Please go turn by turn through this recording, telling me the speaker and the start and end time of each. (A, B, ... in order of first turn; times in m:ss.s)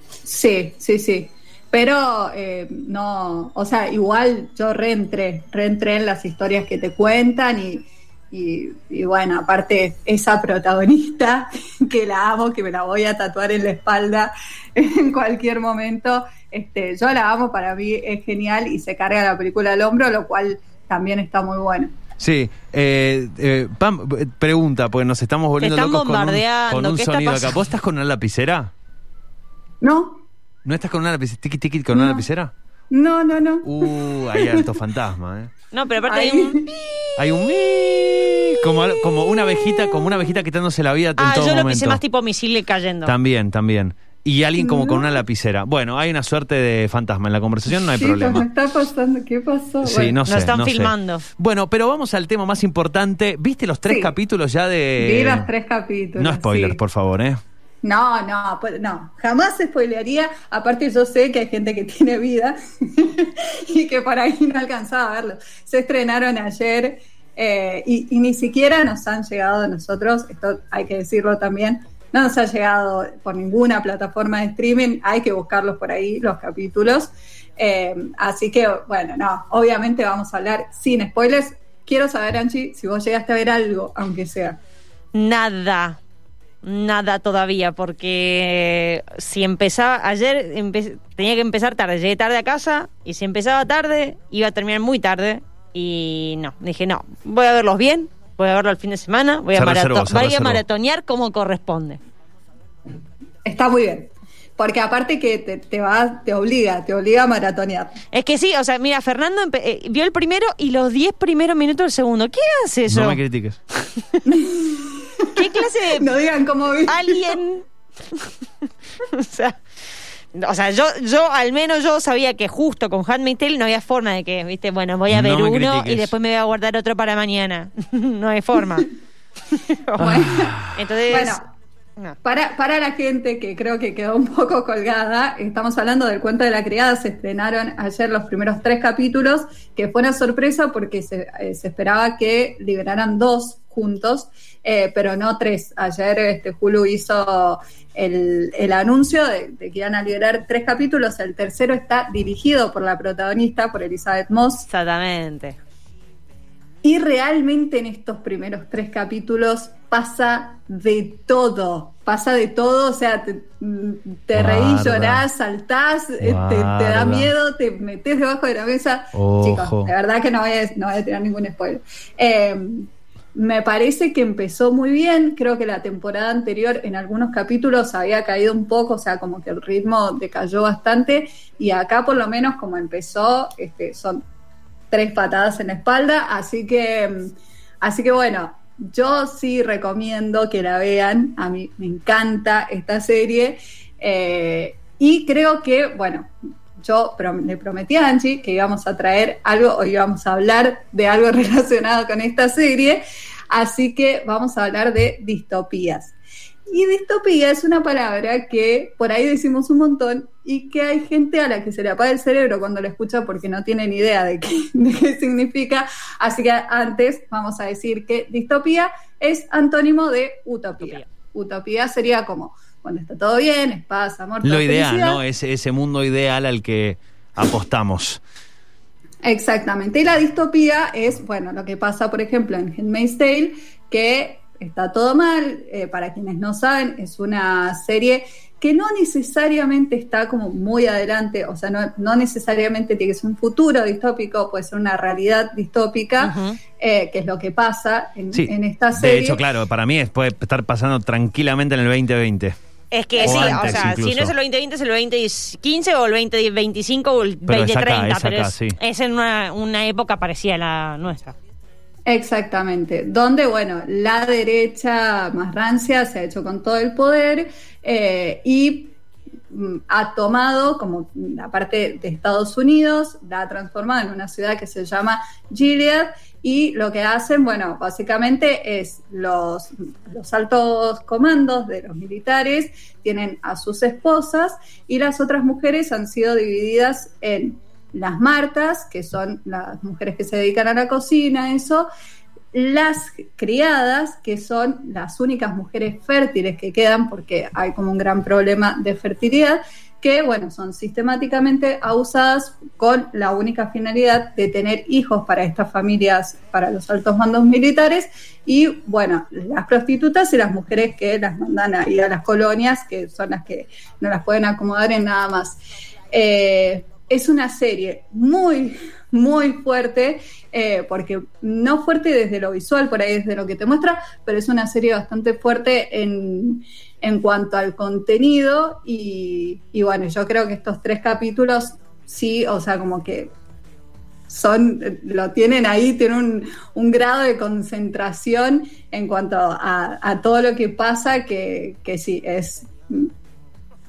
0:00.3-0:22.0 A
0:22.2-0:28.7 B
0:25.6-0:27.6 C
0:29.8-0:30.2 A
0:30.6-0:32.5 B
0:31.9-0:32.3 A
0:32.9-0:34.7 A
0:33.6-0:35.5 B
0:35.7-0:37.4 C
0:36.1-0:36.7 A
0:37.2-0:42.0 B
0:38.0-0:38.5 C
0:39.4-0:39.7 A
0:41.2-0:43.1 C
0:43.0-0:48.4 B
0:44.6-0:45.2 A
0:47.8-0:50.2 A
0:49.8-0:55.5 B
0:50.3-0:51.2 C
0:53.9-0:54.1 A
0:55.0-0:56.8 A
0:56.2-0:57.4 B
0:57.8-1:24.6 A
1:25.1-1:26.0 C
1:26.6-1:42.0 C
1:39.6-1:40.6 B
1:43.4-1:48.0 A
1:48.1-1:53.2 C
1:52.9-1:53.6 B
1:53.8-1:54.2 C
1:54.2-1:57.4 A
1:55.4-1:56.1 C
1:56.9-1:58.3 C
1:59.0-1:59.6 C
2:00.3-2:08.9 C
2:05.1-2:06.1 B
2:09.6-2:11.4 C
2:10.0-2:10.6 A
2:10.0-2:10.8 B
2:11.1-2:11.4 A
2:12.2-2:34.7 A
2:34.7-2:35.6 C
2:36.8-3:04.2 A
2:44.3-2:45.3 B
2:46.2-2:47.3 B
2:49.2-2:49.9 B
3:04.9-3:26.2 A
3:26.7-3:45.2 A
3:44.4-3:48.2 B
3:49.2-4:09.4 A
4:06.2-4:06.6 C
4:08.3-4:12.6 B
4:12.9-4:21.4 C
4:13.2-4:14.0 A
4:13.2-4:14.3 B
4:17.5-4:18.8 B
4:22.1-4:29.0 A
4:29.5-4:51.9 A
4:52.5-5:15.6 A
5:16.1-5:33.3 A
5:34.3-5:43.1 A